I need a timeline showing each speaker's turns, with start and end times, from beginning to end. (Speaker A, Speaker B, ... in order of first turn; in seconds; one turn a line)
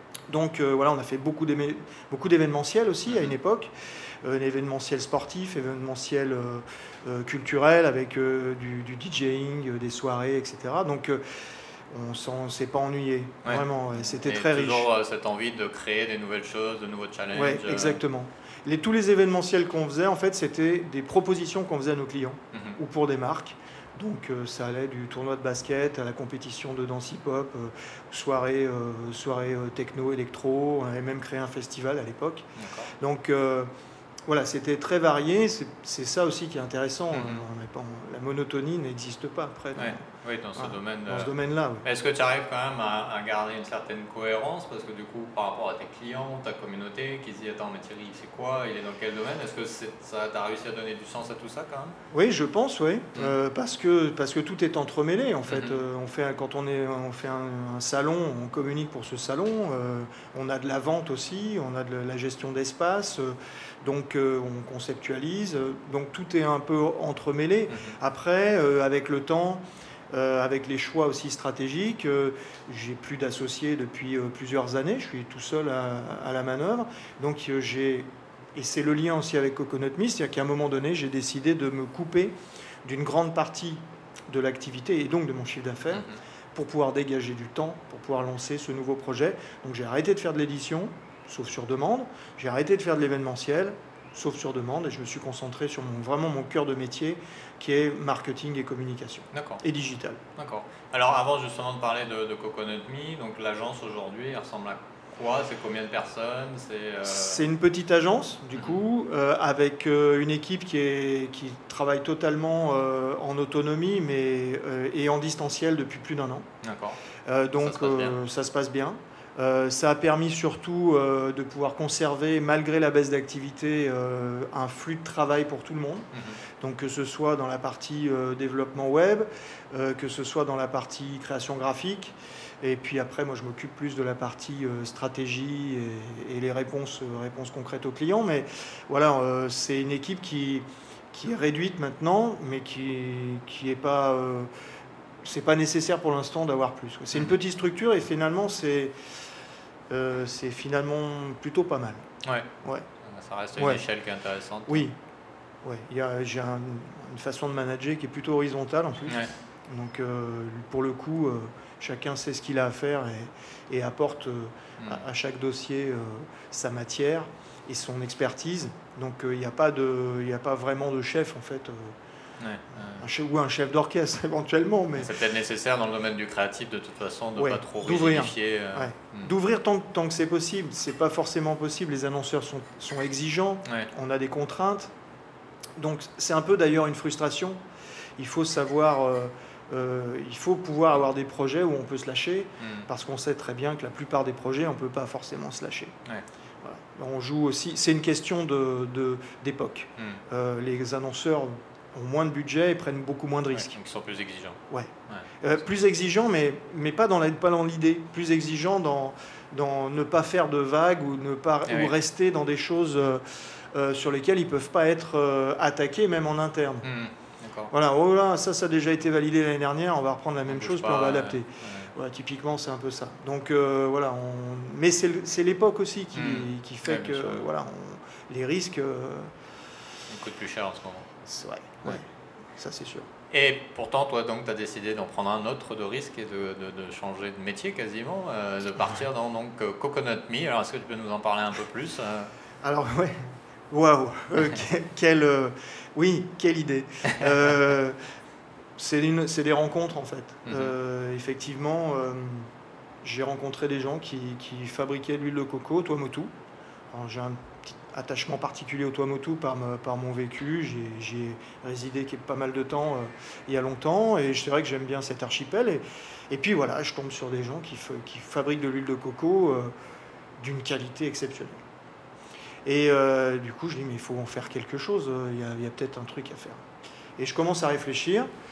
Speaker A: 0.3-3.7
Speaker B: 3.1-3.3
Speaker A: 4.2-11.2
Speaker A: 11.9-14.9
Speaker B: 13.4-18.0
Speaker A: 17.3-32.5
Speaker B: 32.6-32.9
Speaker A: 33.0-33.7
Speaker A: 34.3-41.8
Speaker B: 37.1-37.4
Speaker B: 39.8-41.3
Speaker B: 41.8-52.0
Speaker A: 52.1-100.2
Speaker B: 55.5-55.8
Speaker B: 67.7-68.0
Speaker B: 85.9-86.2
Speaker B: 99.3-99.6
Speaker B: 100.3-107.5
Speaker A: 107.0-116.5
Speaker B: 108.5-108.8
Speaker B: 116.6-117.0
Speaker A: 117.2-126.1
Speaker B: 117.6-118.2
Speaker B: 126.1-126.4
Speaker A: 126.6-144.5
Speaker A: 145.2-148.9
Speaker A: 149.9-152.0
Speaker B: 152.2-152.5
Speaker B: 153.0-154.8
Speaker A: 153.6-153.8
Speaker A: 154.7-154.9
Speaker A: 155.6-171.9
Speaker B: 159.1-159.3
Speaker B: 172.4-173.1
Speaker A: 172.9-175.1
Speaker B: 174.9-179.3
Speaker A: 177.3-184.9
Speaker A: 185.8-187.6
Speaker A: 188.2-195.9
Speaker B: 192.6-192.8
Speaker A: 196.6-203.7
Speaker B: 203.5-205.3
Speaker A: 204.7-216.9
Speaker B: 211.7-211.9
Speaker B: 216.8-217.7
Speaker A: 217.7-229.3
Speaker B: 220.5-221.9
Speaker B: 226.1-227.5
Speaker B: 230.1-231.1
Speaker A: 231.2-233.1
Speaker B: 233.3-242.3
Speaker A: 242.6-248.0
Speaker A: 248.8-252.5
Speaker B: 250.4-250.7
Speaker A: 253.0-256.3
Speaker A: 256.9-269.7
Speaker A: 270.4-271.6
Speaker A: 272.6-276.6
Speaker A: 277.2-278.3